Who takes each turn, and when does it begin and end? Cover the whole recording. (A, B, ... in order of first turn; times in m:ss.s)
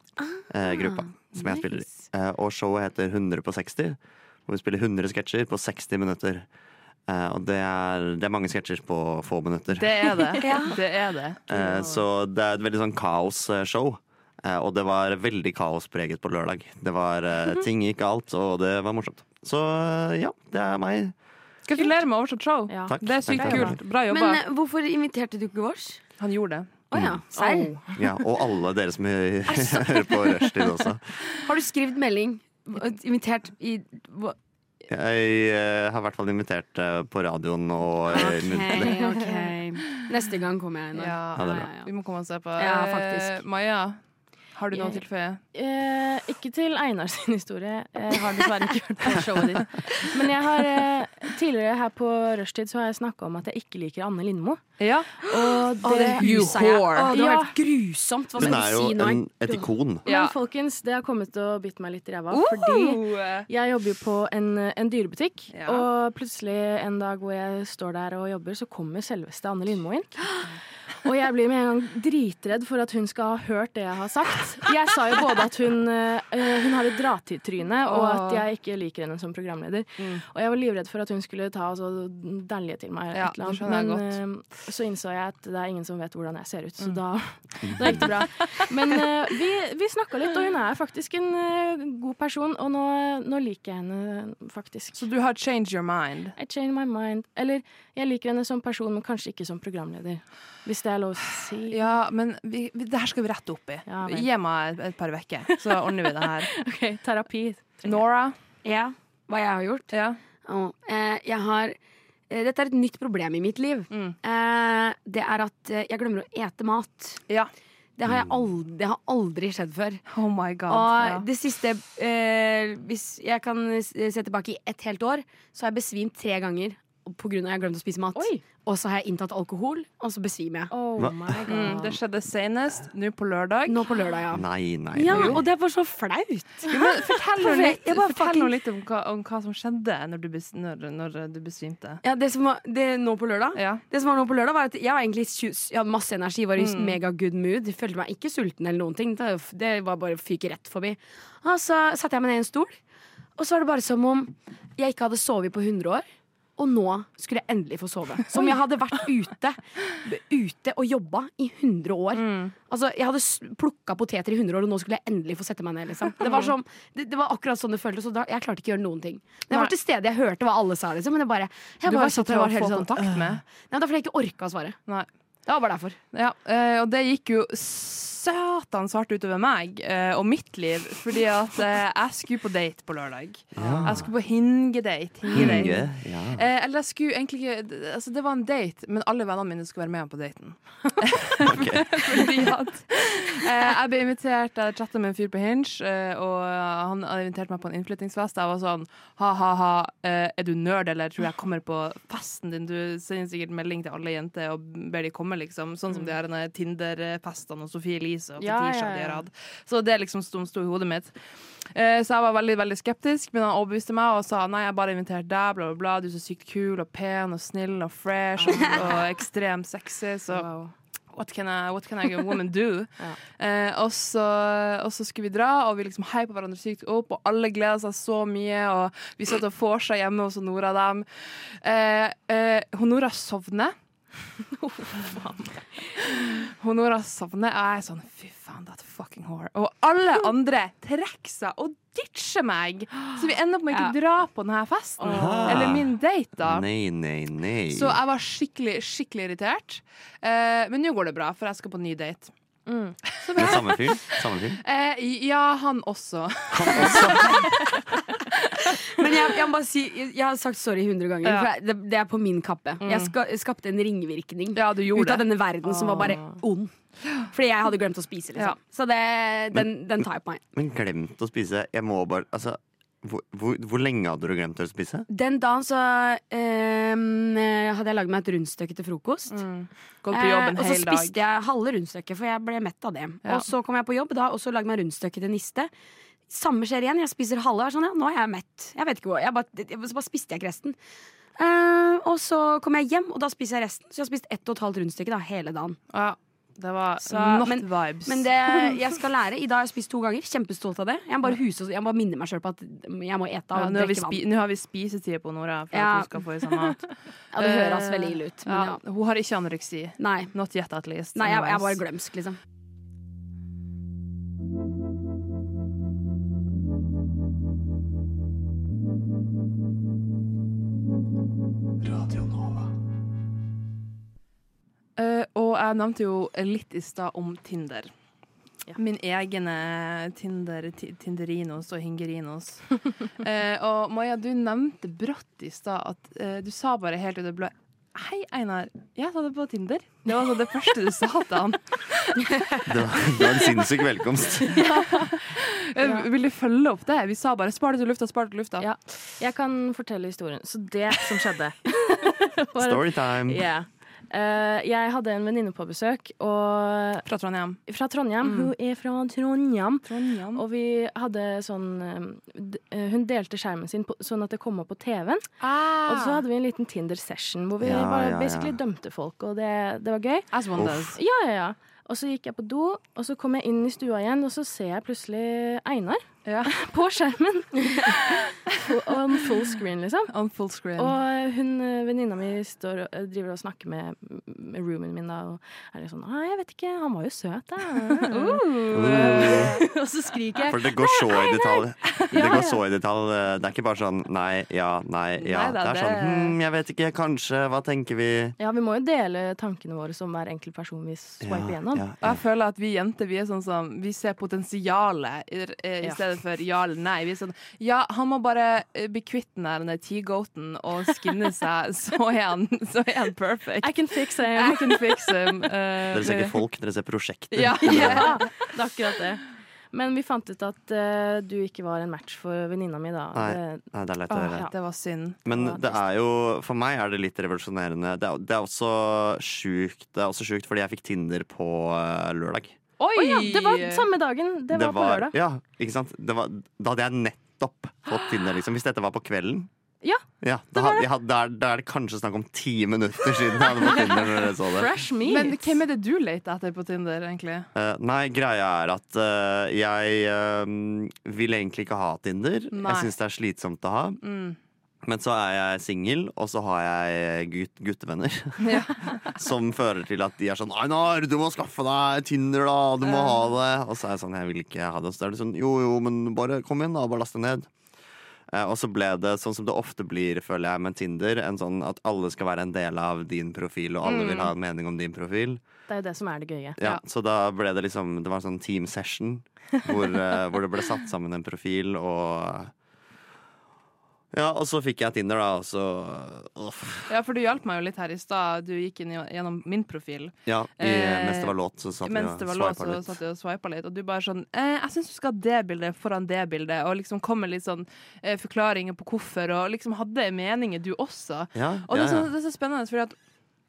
0:00.3-0:01.6 A
0:00.5-0:06.5 B
0:07.1-0:10.4 B
0:09.8-0:11.4 C
0:10.4-0:10.8 A
0:11.5-0:21.1 B
0:21.6-0:24.4 C
0:22.7-0:23.8 D
0:22.9-0:23.8 B
0:24.1-0:26.0 A
0:26.2-0:26.7 C
0:26.9-0:28.0 A
0:26.9-0:27.2 B
0:27.9-0:31.0 B
0:29.5-0:30.4 A
0:31.4-0:34.4 A
0:34.9-0:38.9 B
0:38.1-0:41.9 A
0:40.9-0:44.0 C
0:41.4-0:41.7 B
0:42.6-0:43.4 A
0:44.6-0:45.4 C
0:45.5-0:54.6 D
0:54.8-0:55.3 C
0:55.2-0:57.5 D
0:55.3-0:59.7 A
0:56.1-0:57.1 C
0:58.4-1:00.0 B
1:00.0-1:10.2 D
1:00.0-1:00.3 C
1:02.3-1:03.5 C
1:05.5-1:05.9 C
1:11.0-1:35.0 D
1:17.8-1:18.4 C
1:23.1-1:24.2 C
1:27.6-1:28.1 B
1:34.9-1:36.4 C
1:36.4-1:41.8 D
1:41.7-1:46.5 C
1:43.8-1:44.3 D
1:45.5-1:48.0 D
1:47.8-1:48.4 C
1:48.6-1:49.9 A
1:49.9-1:50.2 C
1:50.4-1:51.8 A
1:52.3-1:57.2 A
1:53.9-1:54.2 C
1:58.0-2:00.0 A
1:58.1-1:58.4 B
2:00.1-2:01.2 C
2:00.7-2:10.7 A
2:08.1-2:08.4 D
2:10.7-2:12.0 D
2:11.0-2:11.3 B
2:11.5-2:13.8 C
2:13.7-2:18.5 A
2:14.3-2:15.4 B
2:15.1-2:15.4 C
2:16.7-2:22.0 C
2:22.0-2:32.8 A
2:23.5-2:23.8 C
2:26.6-2:27.0 C
2:33.4-2:36.0 A
2:36.6-2:54.8 A
2:42.1-2:42.5 C
2:46.2-2:46.5 C
2:51.8-2:53.4 C
2:55.5-2:56.0 A
2:56.1-3:31.1 C
3:03.5-3:04.1 B
3:05.3-3:06.4 B
3:11.4-3:12.1 B
3:28.4-3:29.2 D
3:31.7-3:40.4 C
3:38.4-3:38.9 D
3:40.3-3:40.7 D
3:41.1-3:53.7 C
3:54.8-3:55.5 D
3:56.0-4:06.7 C
4:05.0-4:05.5 D
4:05.1-4:08.0 B
4:07.7-4:12.3 C
4:12.7-4:13.0 D
4:13.0-4:19.2 C
4:13.3-4:14.6 B
4:16.5-4:17.5 B
4:18.6-4:30.4 A
4:21.2-4:21.5 C
4:22.8-4:23.1 C
4:24.5-4:25.3 C
4:25.8-4:26.4 D
4:30.5-4:35.1 B
4:35.1-4:39.4 A
4:39.3-4:41.1 C
4:40.1-4:45.7 A
4:46.3-4:50.8 A
4:51.4-4:55.8 A
4:55.9-4:58.8 C
4:57.0-5:04.2 A
5:03.5-5:11.8 C
5:05.7-5:06.8 A
5:07.3-5:08.8 A
5:10.0-5:10.3 A
5:11.1-5:12.4 A
5:21.8-5:22.7 B
5:25.0-5:27.9 C
5:28.8-5:42.2 C
5:42.6-5:44.6 B
5:44.5-5:45.1 D
5:44.6-5:48.7 C
5:45.8-5:46.0 D
5:48.6-5:57.0 D
5:52.6-5:53.4 B
5:57.0-5:57.6 C
5:57.7-6:05.3 D
5:58.2-5:58.5 C
5:59.8-6:00.4 C
6:05.4-6:06.2 C
6:05.8-6:20.1 D
6:07.6-6:08.6 B
6:10.3-6:11.0 C
6:10.5-6:10.9 B
6:16.2-6:16.5 C
6:20.1-6:20.9 C
6:20.8-6:30.6 D
6:28.1-6:29.6 C
6:28.7-6:29.6 B
6:30.4-6:38.3 B
6:32.1-6:32.6 D
6:32.2-6:32.4 C
6:35.2-6:36.4 C
6:38.4-6:41.8 D
6:41.2-6:42.2 B
6:42.0-6:56.4 C
6:53.6-6:55.4 D
6:55.9-6:58.2 B
6:57.3-6:58.4 C
6:57.6-7:03.6 D
7:03.1-7:04.5 B
7:04.1-7:05.2 C
7:04.2-7:04.5 D
7:05.2-7:12.6 B
7:05.3-7:05.8 D
7:12.8-7:13.8 C
7:13.0-7:15.1 D
7:14.5-7:19.5 B
7:20.2-7:24.7 B
7:20.5-7:20.8 D
7:24.5-7:25.5 D
7:25.0-7:27.5 C
7:27.5-7:34.0 B
7:32.5-7:32.9 C
7:34.0-7:34.4 C
7:34.8-7:47.5 B
7:38.4-7:39.0 C
7:42.8-7:43.2 C
7:48.3-7:55.4 B
7:53.8-7:54.3 C
7:55.7-7:56.6 D
7:56.6-8:02.5 B
8:04.1-8:06.9 B
8:06.9-8:23.0 C
8:10.2-8:13.0 B
8:21.3-8:22.1 B